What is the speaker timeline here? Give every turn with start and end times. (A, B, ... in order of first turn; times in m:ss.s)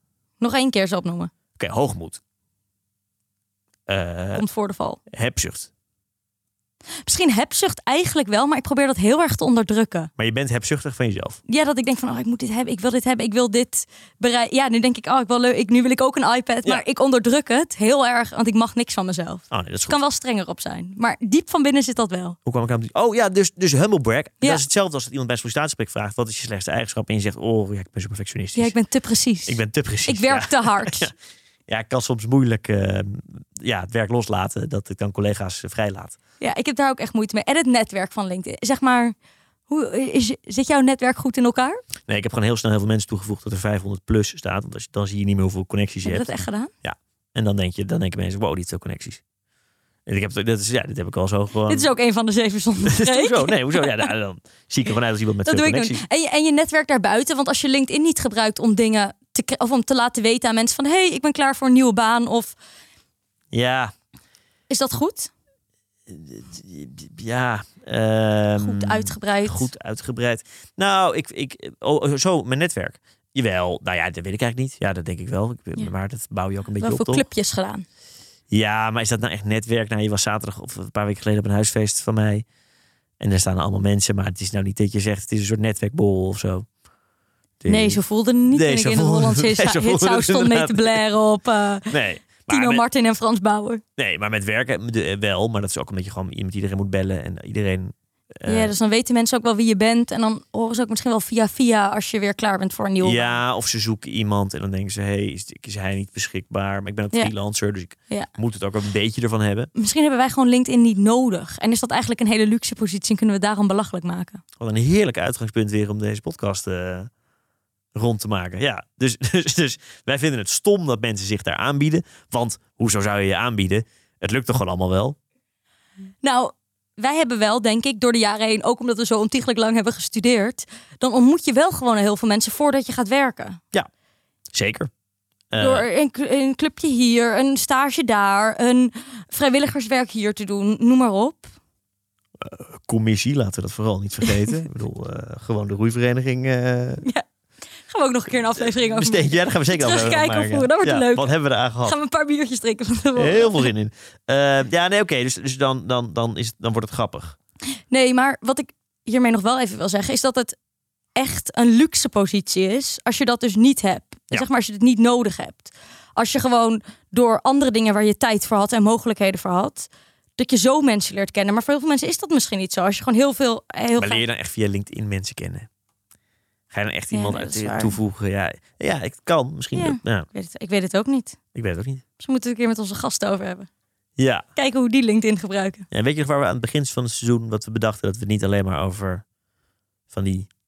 0:00.4-0:01.3 A
0:01.6-0:02.2 B
0:03.9-0:04.4 B
0:04.4-0:05.0 A
0:05.1-0:05.7 B
0:07.0-0:10.1 A
0:10.2-0:11.4 B
0:11.5-0:22.4 A
0:19.5-0:20.0 B
0:22.4-0:28.7 B
0:28.6-0:31.1 A
0:29.5-0:31.1 B
0:31.7-0:36.2 B
0:36.4-0:39.1 A
0:39.7-0:41.8 A
0:42.1-0:46.3 B
0:46.0-0:46.7 A
0:46.8-0:49.2 B
0:50.1-0:51.9 B
0:51.7-0:54.1 A
0:52.9-0:56.0 B
0:55.4-1:02.6 A
1:03.5-1:03.9 B
1:04.7-1:05.3 A
1:06.1-1:17.2 B
1:08.6-1:09.7 A
1:16.8-1:17.9 A
1:18.5-1:22.4 B
1:23.2-1:26.6 B
1:27.6-1:31.0 B
1:27.7-1:33.8 A
1:31.9-1:32.8 B
1:34.0-1:38.7 B
1:38.4-1:43.4 A
1:43.0-1:49.7 B
1:49.7-1:54.4 A
1:54.6-1:57.1 B
1:57.9-2:05.2 B
2:06.2-2:13.6 A
2:14.5-2:14.9 B
2:15.5-2:15.9 B
2:15.6-2:21.5 A
2:22.4-2:27.0 B
2:27.9-2:31.3 A
2:28.6-2:32.0 B
2:31.8-2:33.7 A
2:33.2-2:37.4 B
2:37.9-2:40.6 A
2:41.2-2:54.2 A
2:54.0-2:55.7 B
2:56.7-3:00.2 B
2:57.1-2:58.0 A
2:59.7-3:01.4 A
3:01.6-3:02.0 B
3:02.2-3:03.7 A
3:04.2-3:04.4 B
3:04.6-3:05.9 A
3:05.9-3:09.2 B
3:10.1-3:10.5 B